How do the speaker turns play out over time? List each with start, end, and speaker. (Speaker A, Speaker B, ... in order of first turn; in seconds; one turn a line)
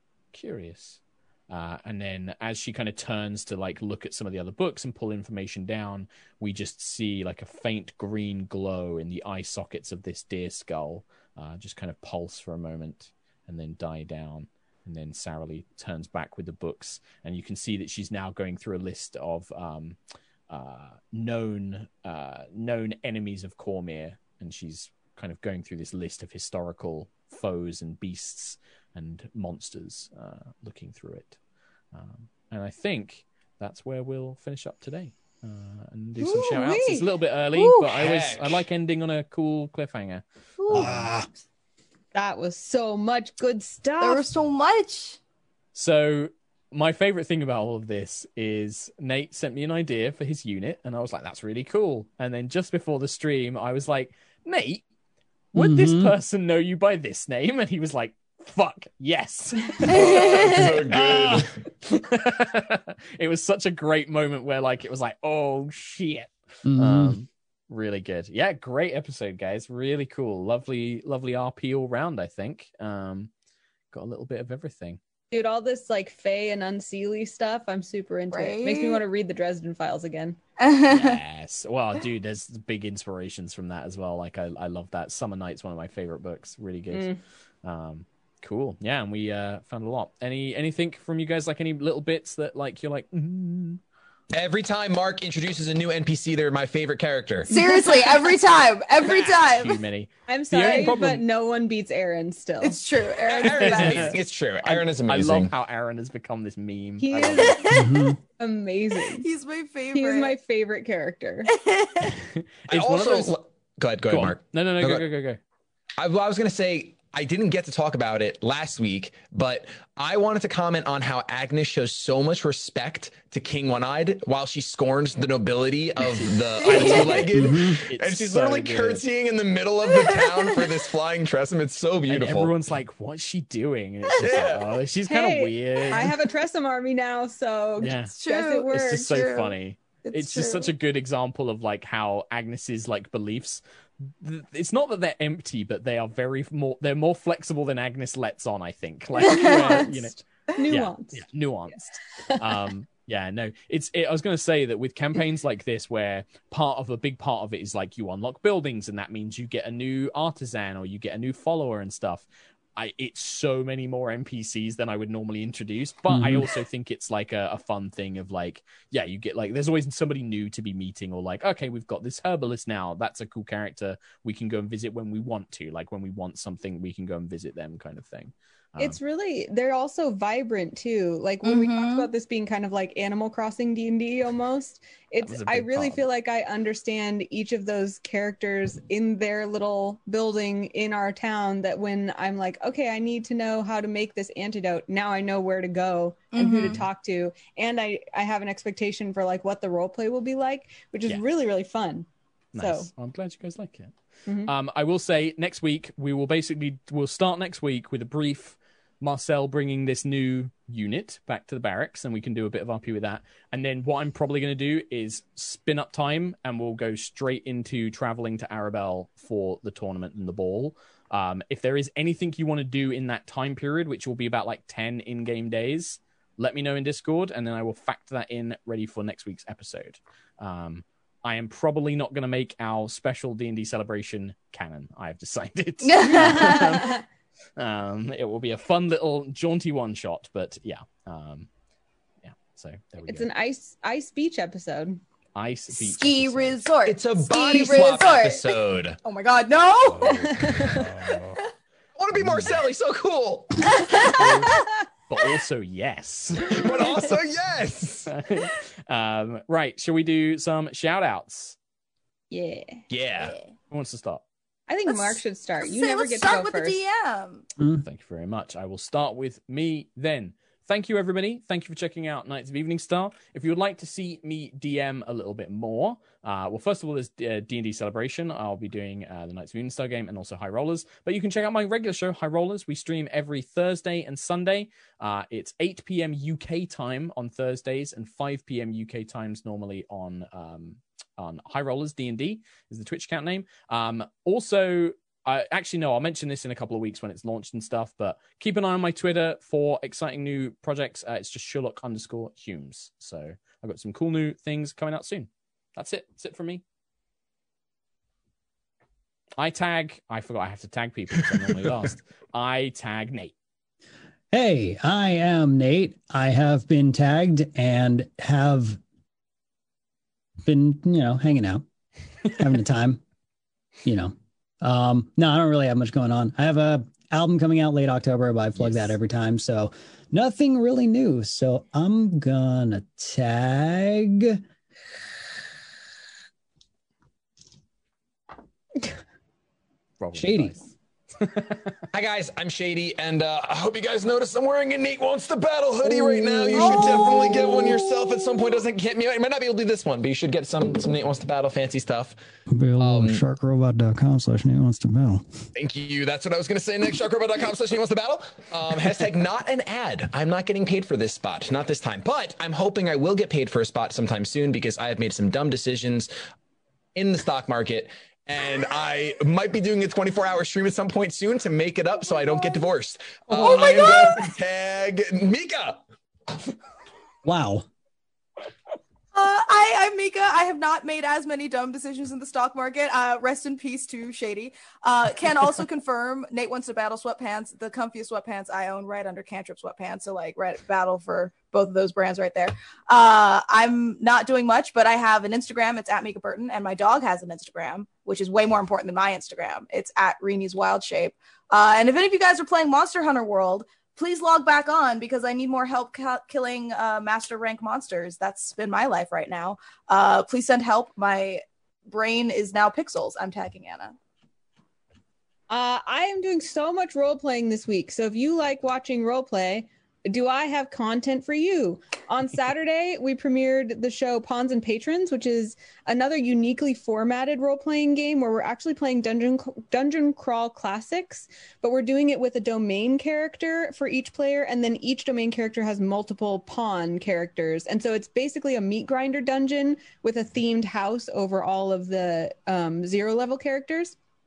Speaker A: 0.3-20.0
Speaker A: 20.5-31.4
Speaker A: 31.9-41.1
Speaker B: 36.2-37.0
Speaker B: 37.5-37.9
Speaker C: 38.0-38.6
Speaker B: 40.6-41.1
Speaker D: 40.7-41.2
Speaker E: 42.1-44.3
Speaker B: 44.0-45.2
Speaker A: 45.8-54.8
Speaker A: 55.5-73.3
Speaker D: 55.6-56.1
Speaker B: 59.9-60.8
Speaker C: 59.9-61.5
Speaker D: 66.7-67.2
Speaker A: 73.9-75.0
Speaker E: 75.3-80.4
Speaker B: 78.3-79.0
Speaker B: 80.6-81.2
Speaker A: 80.9-87.1
Speaker E: 86.9-87.2
Speaker A: 87.6-93.8
Speaker C: 94.3-97.5
Speaker E: 97.5-98.2
Speaker B: 97.5-99.8
Speaker A: 99.0-101.2
Speaker E: 100.3-102.8
Speaker B: 102.6-104.2
Speaker C: 103.3-105.5
Speaker A: 103.5-107.6
Speaker E: 107.0-109.2
Speaker B: 107.3-108.0
Speaker D: 107.7-108.2
Speaker B: 109.2-110.4
Speaker E: 109.9-111.5
Speaker B: 111.5-112.2
Speaker A: 112.7-113.3
Speaker C: 112.7-115.0
Speaker A: 114.1-115.4
Speaker C: 116.0-132.5
Speaker A: 126.0-129.1
Speaker B: 126.7-127.2
Speaker D: 127.4-127.7
Speaker B: 129.9-130.8
Speaker A: 132.1-136.1
Speaker C: 134.2-134.8
Speaker E: 135.1-139.4
Speaker A: 137.8-138.1
Speaker B: 138.2-140.7
Speaker A: 138.7-179.0
Speaker E: 149.2-151.3
Speaker B: 149.2-150.0
Speaker E: 152.2-152.5
Speaker D: 166.1-166.5
Speaker E: 178.8-202.1
Speaker B: 181.4-182.1
Speaker A: 185.2-186.1
Speaker B: 196.3-196.8
Speaker A: 202.5-237.0
Speaker E: 202.6-202.9
Speaker E: 204.3-204.5
Speaker B: 235.8-236.9
Speaker E: 236.2-236.7
Speaker A: 237.6-241.5
Speaker A: 242.2-243.3
Speaker E: 243.1-245.0
Speaker A: 245.3-246.6
Speaker B: 245.7-250.8
Speaker C: 246.8-249.0
Speaker A: 249.8-251.4
Speaker E: 250.4-250.7
Speaker C: 252.0-254.2
Speaker A: 252.2-252.6
Speaker B: 253.7-254.7
Speaker A: 254.0-256.9
Speaker C: 256.4-258.1
Speaker A: 258.1-261.6
Speaker E: 262.3-262.8
Speaker C: 262.9-263.4
Speaker A: 263.7-264.2
Speaker E: 264.7-266.8
Speaker B: 264.9-267.5
Speaker A: 267.8-306.6
Speaker A: 309.4-313.3
Speaker D: 314.3-318.8
Speaker D: 320.4-321.6
Speaker D: 322.4-323.0
Speaker D: 323.9-334.4
Speaker A: 340.0-341.8
Speaker D: 340.1-340.6
Speaker C: 341.9-352.1
Speaker D: 345.8-346.9
Speaker D: 352.5-355.3
Speaker C: 352.8-353.2
Speaker C: 355.6-366.1
Speaker C: 366.9-375.8
Speaker B: 373.4-374.3
Speaker D: 373.5-373.8
Speaker D: 377.2-377.7
Speaker B: 379.1-413.9
Speaker E: 415.5-444.0